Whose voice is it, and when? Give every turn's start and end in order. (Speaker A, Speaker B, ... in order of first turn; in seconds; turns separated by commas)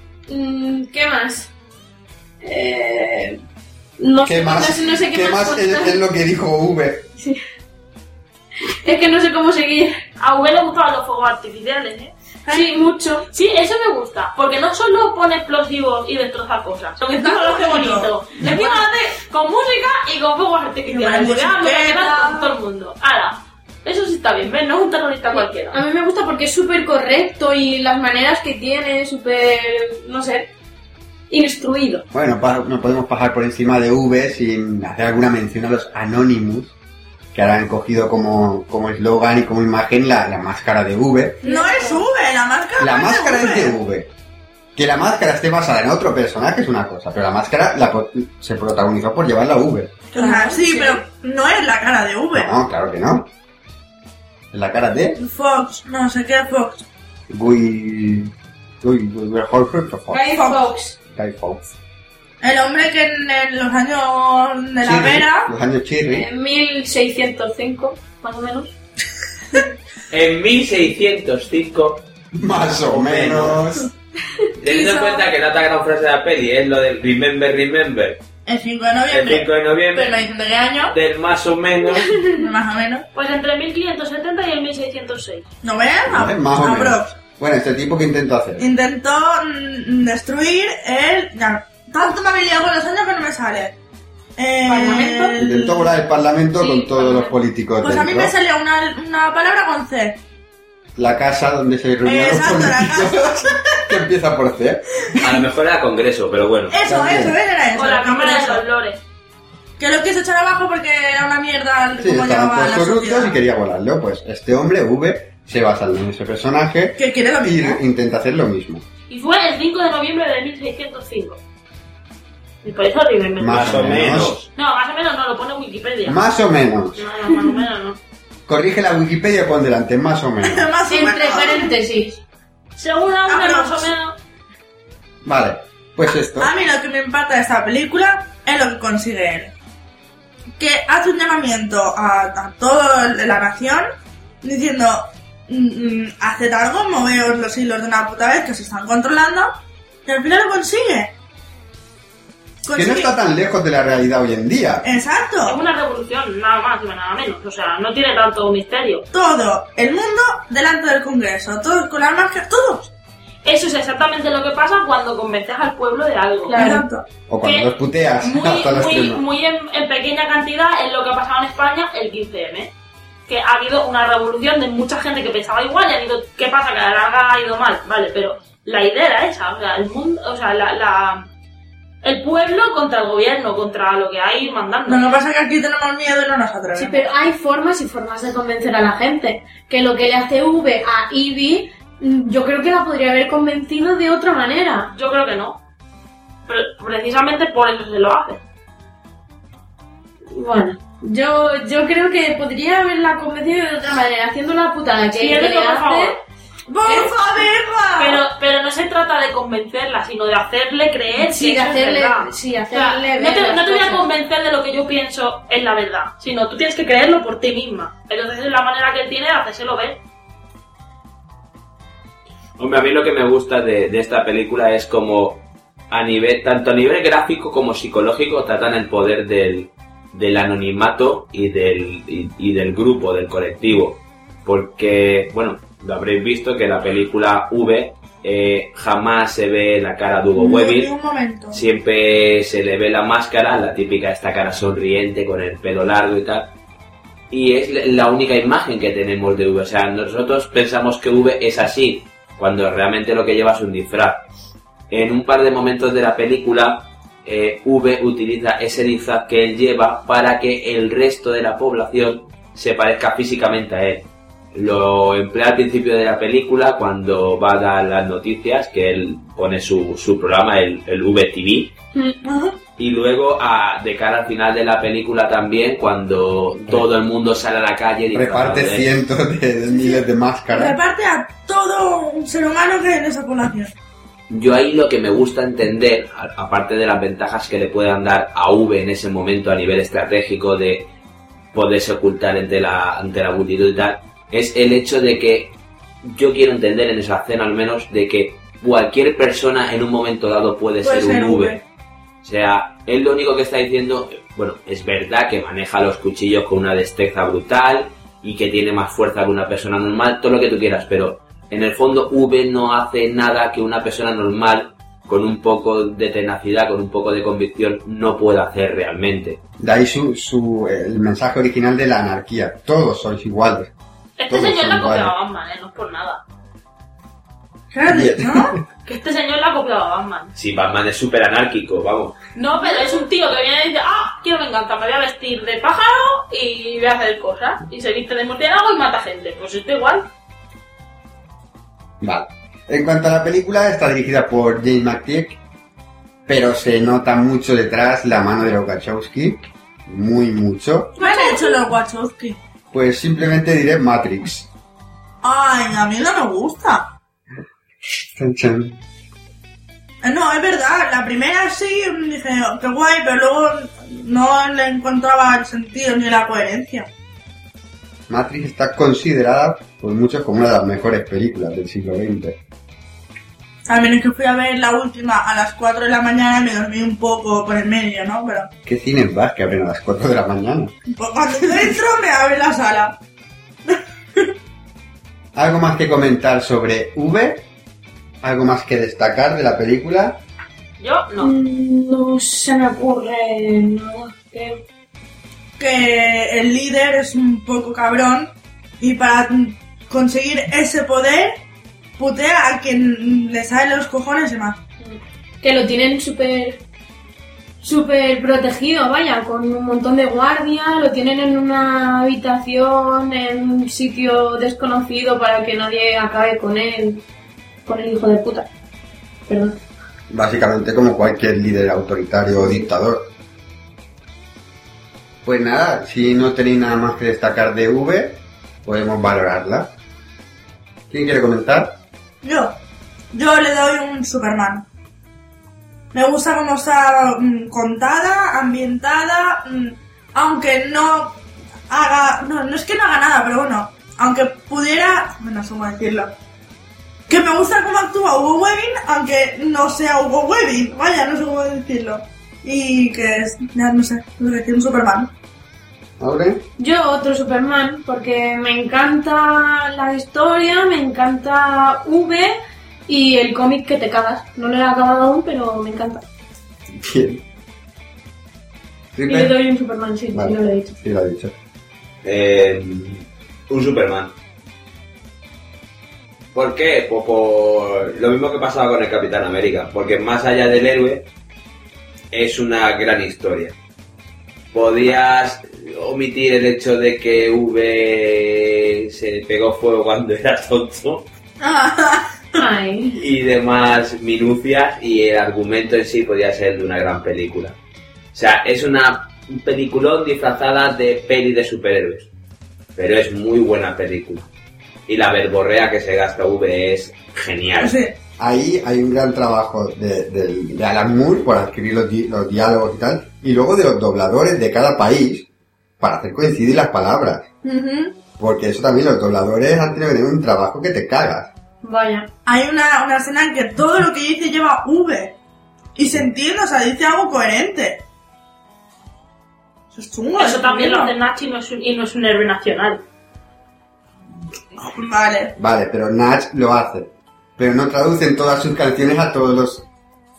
Speaker A: 0.3-1.5, Speaker A: 2.4-3.4, Speaker A: 4.0-6.0, Speaker B: 4.2-7.1, Speaker A: 8.7-9.9, Speaker C: 10.2-12.1, Speaker A: 12.5-13.3, Speaker C: 13.3-25.8, Speaker D: 17.1-18.8, Speaker D: 20.9-22.6, Speaker A: 25.3-30.5, Speaker A: 31.3-32.0, Speaker B: 32.1-36.8, Speaker B: 37.3-41.4, Speaker A: 41.4-42.0, Speaker D: 41.4-43.8, Speaker B: 42.8-44.1, Speaker B: 44.8-50.0, Speaker A: 50.1-51.0, Speaker D: 50.1-52.5, Speaker B: 52.4-53.3, Speaker B: 54.5-55.2, Speaker D: 55.2-56.8, Speaker B: 57.3-60.3, Speaker A: 60.1-61.0, Speaker D: 60.4-60.6, Speaker B: 61.1-61.7, Speaker D: 62.4-65.5, Speaker B: 64.8-66.3, Speaker A: 66.1-68.8, Speaker E: 70.1-72.1, Speaker B: 72.3-73.9, Speaker E: 72.8-73.6, Speaker E: 74.6-78.2, Speaker D: 74.6-75.3, Speaker D: 78.5-80.9, Speaker E: 79.1-80.2, Speaker E: 80.9-82.2, Speaker D: 82.3-83.1, Speaker C: 83.1-85.5, Speaker D: 85.6-87.1, Speaker B: 86.1-88.7, Speaker D: 88.6-93.8, Speaker D: 94.4-95.9, Speaker C: 94.7-95.3, Speaker A: 94.7-95.2, Speaker B: 95.4-98.3, Speaker A: 96.6-97.3, Speaker D: 97.8-100.2, Speaker B: 101.0-105.3, Speaker D: 102.0-103.8, Speaker E: 105.2-106.8, Speaker D: 106.7-108.6, Speaker B: 106.8-107.4, Speaker C: 107.7-109.0, Speaker D: 109.8-113.4, Speaker B: 112.0-118.8, Speaker D: 117.0-117.8, Speaker C: 119.1-121.4, Speaker C: 122.6-123.8, Speaker B: 123.4-124.4, Speaker E: 123.5-124.5, Speaker C: 124.6-126.2, Speaker B: 126.0-127.1, Speaker C: 127.0-128.0, Speaker B: 128.5-130.7, Speaker D: 130.4-131.7, Speaker A: 130.9-132.2, Speaker C: 132.8-134.2, Speaker D: 133.3-133.9, Speaker B: 135.2-136.5, Speaker D: 136.4-139.5, Speaker D: 140.6-143.9, Speaker D: 144.4-151.1, Speaker D: 152.7-153.1, Speaker B: 152.7-154.9, Speaker D: 154.8-155.6, Speaker C: 155.4-159.1, Speaker D: 159.1-162.9, Speaker C: 163.4-166.6, Speaker A: 166.5-166.8, Speaker D: 166.6-167.1, Speaker B: 167.3-169.2, Speaker C: 167.4-167.7, Speaker C: 168.2-172.7, Speaker C: 173.3-181.2, Speaker C: 182.0-185.1, Speaker D: 184.9-187.1, Speaker A: 186.8-194.9, Speaker C: 194.9-195.6, Speaker C: 196.5-198.4, Speaker A: 200.3-206.2, Speaker C: 205.2-206.2, Speaker D: 206.7-208.2, Speaker A: 206.9-207.2, Speaker C: 208.0-220.0, Speaker A: 211.2-214.1, Speaker E: 222.6-240.9, Speaker D: 240.3-241.6, Speaker E: 241.5-246.5, Speaker E: 247.3-254.3, Speaker E: 254.9-271.8, Speaker A: 271.9-272.2, Speaker D: 272.2-272.6, Speaker E: 272.8-278.9, Speaker B: 278.1-280.8, Speaker D: 279.7-283.7, Speaker E: 284.3-290.9, Speaker E: 291.5-301.6, Speaker D: 300.8-301.6, Speaker E: 302.2-319.4, Speaker B: 319.6-323.7, Speaker C: 324.2-326.2, Speaker B: 324.3-325.1, Speaker D: 327.7-328.6, Speaker B: 327.9-328.6, Speaker C: 328.9-330.3, Speaker E: 330.4-332.2, Speaker C: 332.4-340.1, Speaker B: 342.0-345.4, Speaker B: 346.3-351.0, Speaker D: 351.0-352.4, Speaker A: 351.0-351.5, Speaker B: 352.7-354.5, Speaker D: 355.2-356.9, Speaker B: 358.0-358.8, Speaker D: 360.0-366.9, Speaker B: 368.1-372.4, Speaker D: 373.7-378.5, Speaker B: 378.6-380.7, Speaker D: 380.9-383.0, Speaker B: 381.3-381.7, Speaker D: 383.7-384.3, Speaker B: 385.4-387.5, Speaker B: 388.2-390.2, Speaker C: 390.8-391.3, Speaker A: 391.2-394.6, Speaker D: 395.6-401.4, Speaker D: 402.0-404.6, Speaker A: 404.8-406.6, Speaker A: 407.6-417.0, Speaker A: 417.7-418.5, Speaker A: 419.3-419.6, Speaker B: 420.1-423.1, Speaker B: 425.2-429.7, Speaker B: 430.9-431.8, Speaker D: 432.2-432.6, Speaker D: 433.1-434.7, Speaker D: 435.9-446.1, Speaker D: 447.1-455.1, Speaker B: 456.0-456.4, Speaker A: 456.6-462.4, Speaker A: 462.9-466.0, Speaker B: 466.8-467.2, Speaker B: 468.9-469.4, Speaker A: 469.1-470.8, Speaker B: 470.1-471.3, Speaker E: 472.0-474.1, Speaker E: 476.4-481.1, Speaker E: 482.1-483.6, Speaker E: 484.5-491.1, Speaker D: 491.4-492.4, Speaker A: 492.4-493.0, Speaker E: 492.9-497.6, Speaker E: 498.1-502.1, Speaker E: 502.8-504.3, Speaker E: 504.9-507.8, Speaker D: 507.6-507.9, Speaker B: 508.2-515.3, Speaker B: 515.8-517.3, Speaker D: 517.4-518.0, Speaker B: 518.2-521.3, Speaker A: 521.6-522.1, Speaker D: 522.3-525.1, Speaker D: 525.8-527.8, Speaker D: 529.7-530.9, Speaker C: 530.2-532.8, Speaker D: 534.6-535.3, Speaker B: 535.4-539.7